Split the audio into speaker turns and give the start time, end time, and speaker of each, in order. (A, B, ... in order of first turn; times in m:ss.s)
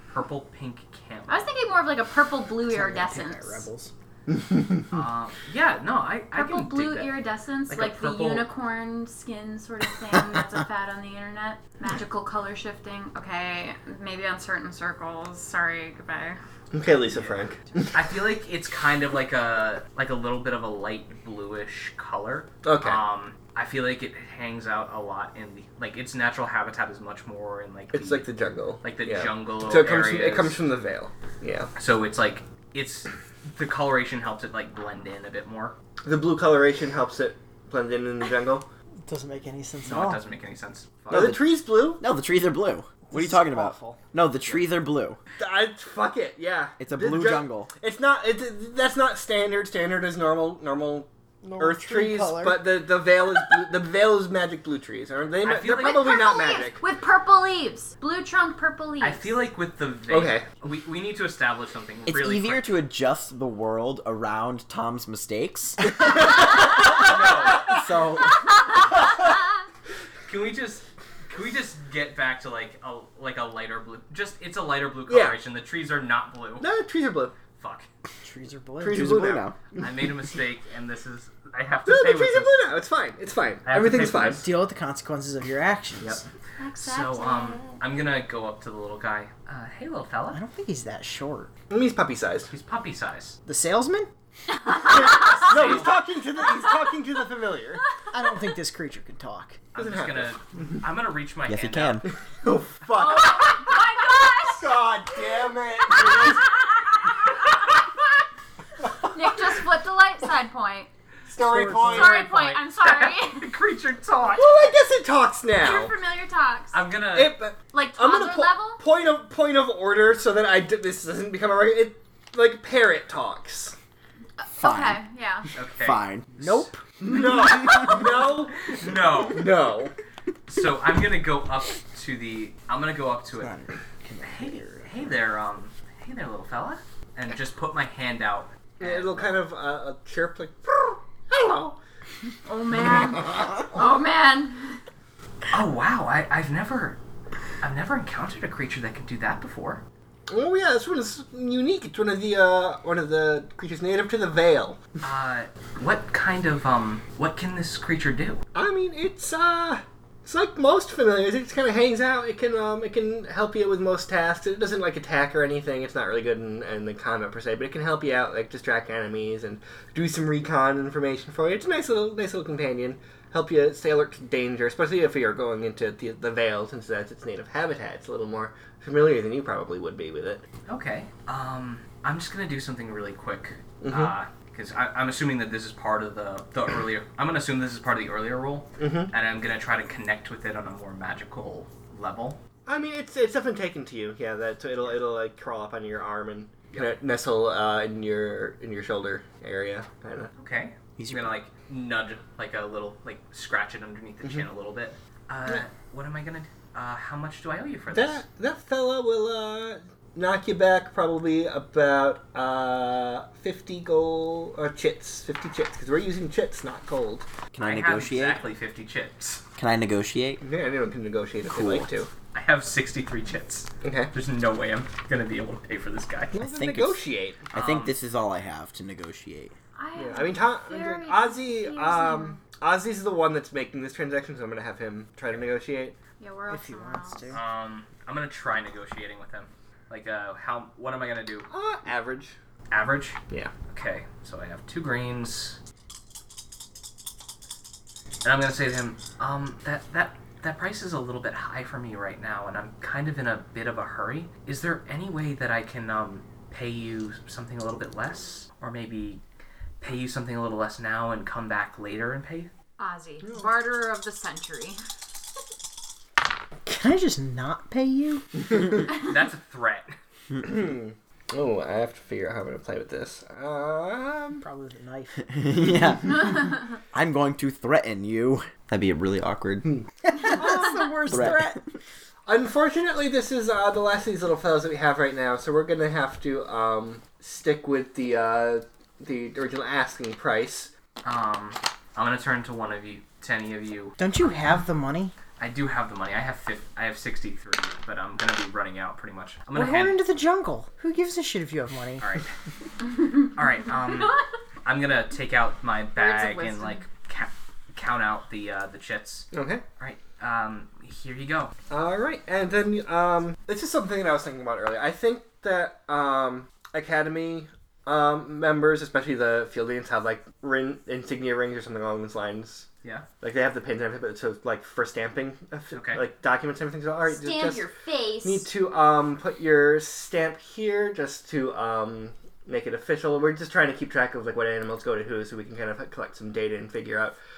0:00.1-0:01.4 A
0:01.3-0:03.7 B
0:02.6-0:03.9 C
0:04.3-0:04.9 D
0:04.9-0:07.1 A
0:06.3-0:16.4 B
0:07.7-0:08.4 A
0:16.7-0:18.0 D
0:17.9-0:28.3 A
0:22.6-0:23.0 D
0:27.9-0:31.7 D
0:28.8-0:30.6 A
0:31.8-0:35.8 A
0:36.0-0:38.7 D
0:39.1-0:40.2 C
0:39.8-0:41.4 A
0:41.1-0:42.0 D
0:41.1-0:41.4 E
0:42.0-0:45.2 E
0:43.1-0:44.0 C
0:45.4-0:56.8 D
0:46.8-0:47.7 E
0:51.4-0:52.7 C
0:55.4-0:56.1 A
0:55.7-0:59.3 B
0:59.0-1:02.7 A
1:00.1-1:00.5 D
1:02.1-1:06.2 E
1:06.9-1:07.8 A
1:07.6-1:08.4 E
1:10.3-1:16.7 A
1:15.1-1:15.4 D
1:16.6-1:17.4 D
1:17.6-1:17.9 A
1:18.2-1:19.2 C
1:18.8-1:19.9 D
1:18.9-1:19.6 E
1:19.8-1:22.6 A
1:21.9-1:24.4 D
1:23.6-1:24.4 A
1:24.0-1:26.2 C
1:26.6-1:27.8 B
1:26.8-1:30.4 A
1:30.3-1:31.5 C
1:31.7-1:32.5 D
1:32.5-1:33.4 A
1:33.5-1:34.1 C
1:34.7-1:35.3 B
1:34.7-1:37.8 D
1:35.1-1:36.0 A
1:38.1-1:39.6 C
1:39.7-1:42.0 A
1:39.8-1:40.8 D
1:41.5-1:42.1 E
1:42.4-1:43.7 D
1:42.9-1:44.8 B
1:44.4-1:46.6 D
1:45.9-1:47.7 B
1:49.0-1:50.9 B
1:51.3-1:52.2 D
1:51.4-1:52.1 C
1:51.8-1:54.5 A
1:51.9-1:53.5 B
1:54.3-1:55.9 D
1:55.6-1:56.8 B
1:56.7-1:57.4 A
1:57.1-2:03.8 D
1:57.7-1:58.8 B
2:04.4-2:05.5 B
2:04.6-2:05.0 E
2:05.5-2:06.6 A
2:05.8-2:06.3 E
2:06.4-2:06.9 C
2:07.0-2:08.7 D
2:08.7-2:09.5 A
2:09.3-2:09.9 D
2:10.5-2:13.6 A
2:13.5-2:14.9 C
2:14.2-2:19.4 A
2:18.8-2:21.8 D
2:22.5-2:24.8 B
2:25.5-2:27.0 A
2:27.6-2:29.8 A
2:30.3-2:34.8 D
2:35.0-2:38.4 A
2:38.6-3:00.4 D
3:00.7-3:12.4 A
3:03.8-3:04.1 D
3:08.8-3:09.1 D
3:12.7-3:20.3 D
3:20.4-3:28.2 A
3:21.0-3:21.3 E
3:27.9-3:37.3 D
3:37.5-3:38.4 E
3:37.6-3:39.4 A
3:39.6-3:40.4 E
3:40.4-3:42.1 D
3:41.5-3:41.9 E
3:42.3-3:46.4 A
3:43.8-3:44.1 D
3:46.3-3:47.5 D
3:46.5-3:47.0 E
3:47.5-3:47.9 A
3:47.5-3:49.6 E
3:49.8-3:52.4 B
3:50.0-3:56.0 D
3:56.2-3:57.3 B
3:56.5-3:57.4 C
3:57.3-4:01.5 A
4:01.5-4:02.4 D
4:02.7-4:05.6 A
4:08.2-4:19.2 A
4:19.8-4:22.5 A
4:22.8-4:24.8 B
4:26.6-4:28.5 C
4:28.8-4:30.0 A
4:30.4-4:34.4 D
4:34.4-4:35.4 C
4:35.3-4:40.6 E
4:36.3-4:36.6 B
4:40.1-4:41.6 C
4:40.4-4:40.7 D
4:41.1-4:41.6 E
4:42.3-4:50.7 D
4:51.0-4:54.0 A
4:54.0-4:55.1 C
4:55.4-5:00.0 A
4:59.5-5:02.0 C
5:02.0-5:02.3 A
5:03.1-5:11.5 A
5:06.0-5:06.8 B
5:09.3-5:09.6 D
5:11.7-5:22.7 D
5:23.2-5:27.7 D
5:25.7-5:26.0 A
5:27.1-5:28.5 B
5:28.2-5:37.2 D